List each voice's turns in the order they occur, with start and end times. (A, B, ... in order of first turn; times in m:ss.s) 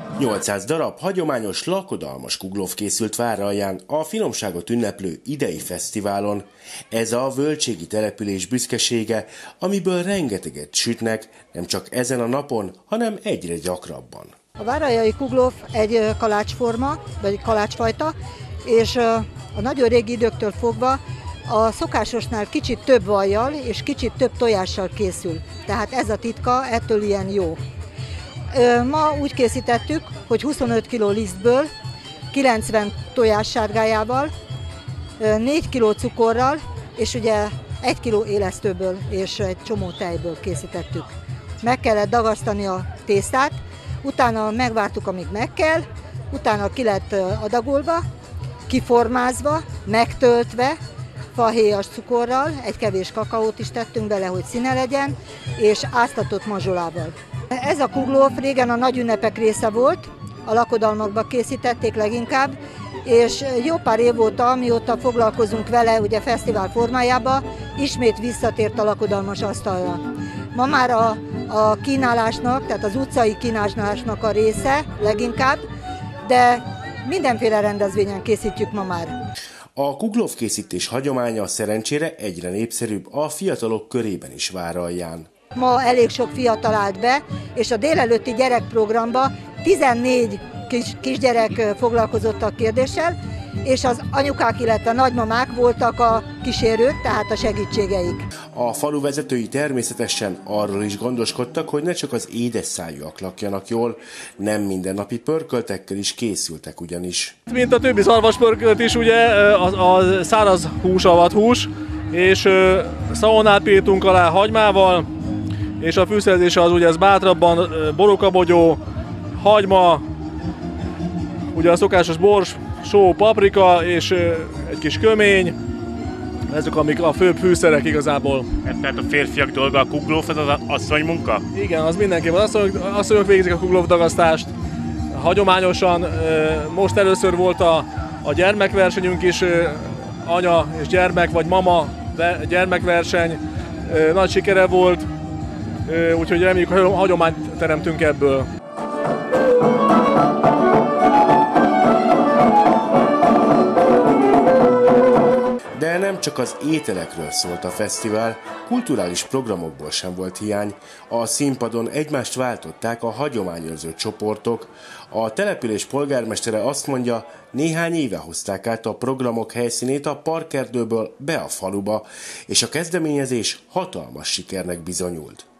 0:00.2-0:14.3 A
0:14.6-0:27.6 B
0:28.5-0:31.7 B
0:32.3-0:34.3 B
0:35.2-0:48.0 B
0:48.7-0:50.8 B
0:51.3-1:10.0 B
1:10.5-1:15.6 B
1:16.2-1:19.1 B
1:19.8-1:25.3 A
1:25.5-1:38.3 B
1:38.5-1:47.3 A
1:47.5-1:55.0 C
1:55.8-1:58.8 C
1:59.4-2:00.0 C
2:01.5-2:05.5 C
2:06.5-2:08.4 C
2:08.6-2:11.4 D
2:11.6-2:14.5 C
2:15.1-2:25.1 C
2:25.9-2:28.4 C
2:35.8-2:55.4 A